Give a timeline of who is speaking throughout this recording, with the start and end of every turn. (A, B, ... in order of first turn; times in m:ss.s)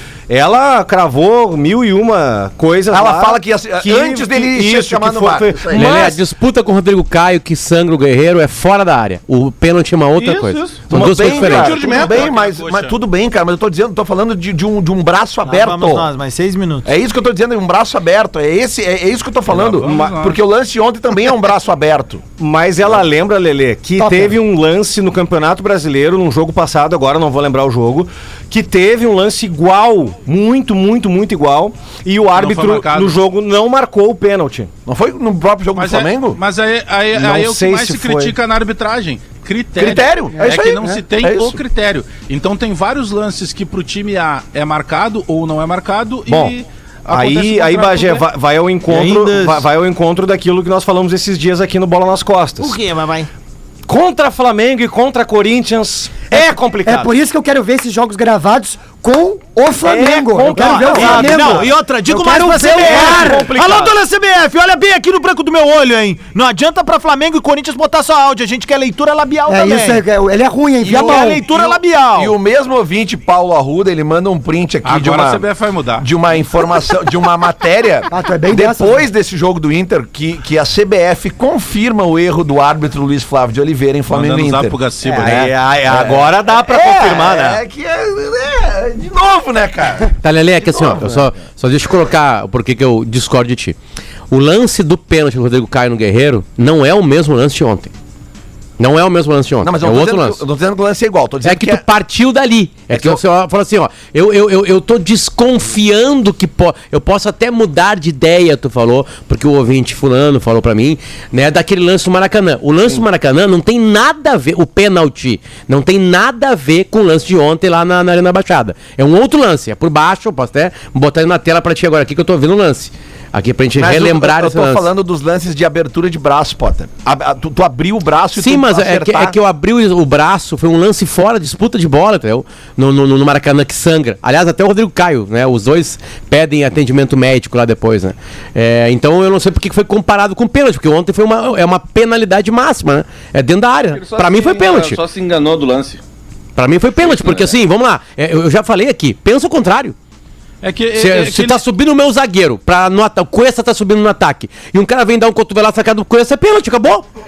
0:00.3-0:06.2 A
0:02.9-0:06.1 B
0:05.7-0:11.8 C
0:10.9-0:16.1 B
0:10.9-0:11.2 A
0:11.2-0:13.0 D
0:11.7-0:12.2 E
0:15.4-0:16.9 F
0:16.8-0:22.2 B
0:19.5-0:20.2 A
0:19.8-0:20.4 D
0:22.4-0:34.7 A
0:24.0-0:24.4 G
0:32.3-0:33.2 D
0:34.8-0:36.4 B
0:35.7-0:48.3 D
0:37.1-0:38.3 A
0:39.8-0:41.6 B
0:40.3-0:41.0 G
0:46.3-0:46.5 A
0:47.1-0:52.8 A
0:48.9-0:49.6 F
0:52.6-0:53.3 F
0:53.9-0:57.1 A
0:56.3-1:03.5 G
0:59.8-1:01.7 A
1:00.5-1:10.0 F
1:02.7-1:04.0 A
1:09.5-1:11.4 G
1:10.8-1:15.4 B
1:10.9-1:12.3 F
1:14.8-1:16.1 D
1:16.0-1:25.3 B
1:18.1-1:19.0 G
1:24.1-1:25.5 D
1:25.0-1:27.6 A
1:25.9-1:31.3 B
1:30.2-1:33.8 C
1:34.3-1:37.9 C
1:38.8-1:40.4 C
1:39.6-1:41.8 B
1:41.4-2:04.8 C
1:42.9-1:43.2 B
2:03.8-2:09.4 B
2:08.4-2:25.0 C
2:23.9-2:26.0 E
2:26.6-2:29.9 C
2:27.0-2:27.5 E
2:30.6-2:31.6 D
2:31.0-2:37.0 C